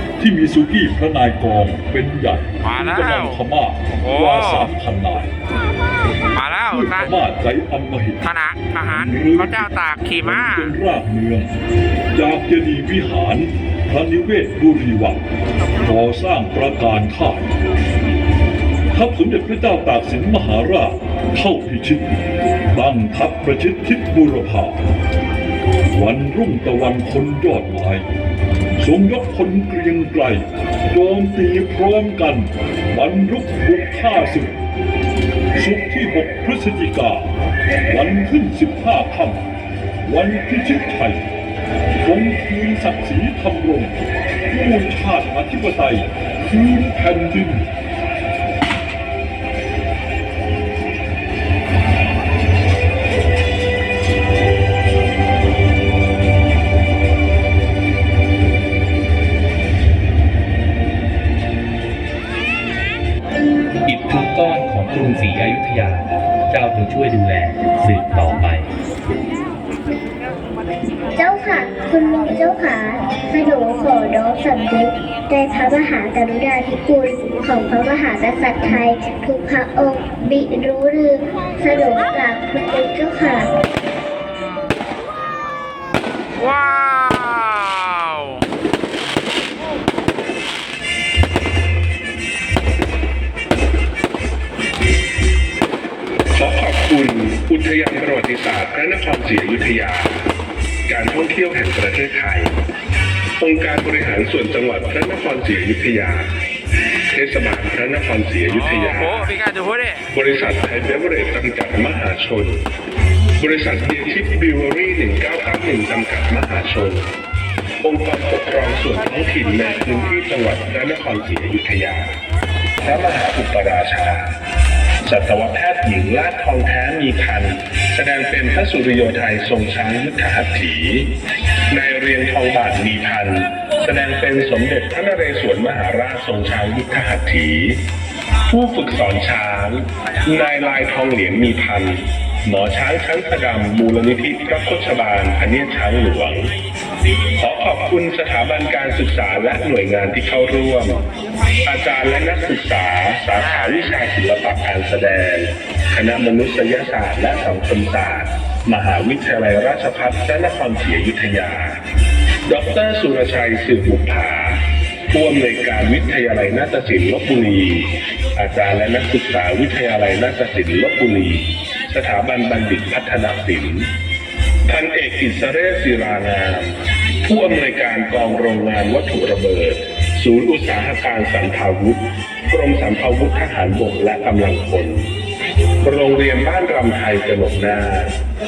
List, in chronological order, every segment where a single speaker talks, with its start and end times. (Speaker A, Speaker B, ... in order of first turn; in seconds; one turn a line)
Speaker A: 0.2-5.3
Speaker B: 2.6-3.4
Speaker B: 4.0-4.7
Speaker B: 6.3-7.1
Speaker A: 6.7-8.3
Speaker B: 8.2-10.7
Speaker A: 8.9-9.7
Speaker A: 10.2-11.5
Speaker A: 12.1-15.2
Speaker A: 15.8-17.5
Speaker A: 18.9-22.1
Speaker A: 22.7-24.8
Speaker A: 25.9-28.1
Speaker A: 28.8-34.5
Speaker A: 35.5-37.3
Speaker A: 37.9-39.4
Speaker A: 40.0-41.2
Speaker A: 42.0-44.0
Speaker A: 44.5-47.7
Speaker C: 63.9-68.7
Speaker D: 71.1-83.5
Speaker B: 86.3-88.4
Speaker E: 96.3-100.1
Speaker E: 100.9-102.5
Speaker E: 103.4-106.3
Speaker E: 107.1-109.3
Speaker B: 108.5-110.0
Speaker E: 110.1-112.6
Speaker E: 113.4-117.1
Speaker E: 117.8-122.1
Speaker E: 122.8-124.3
Speaker E: 125.0-131.1
Speaker E: 131.7-137.8
Speaker E: 138.5-146.5
Speaker E: 147.3-151.0
Speaker E: 151.6-161.8
Speaker B: 153.4-153.9
Speaker E: 162.5-164.6
Speaker E: 165.1-173.9
Speaker E: 174.7-185.1
Speaker E: 185.8-188.1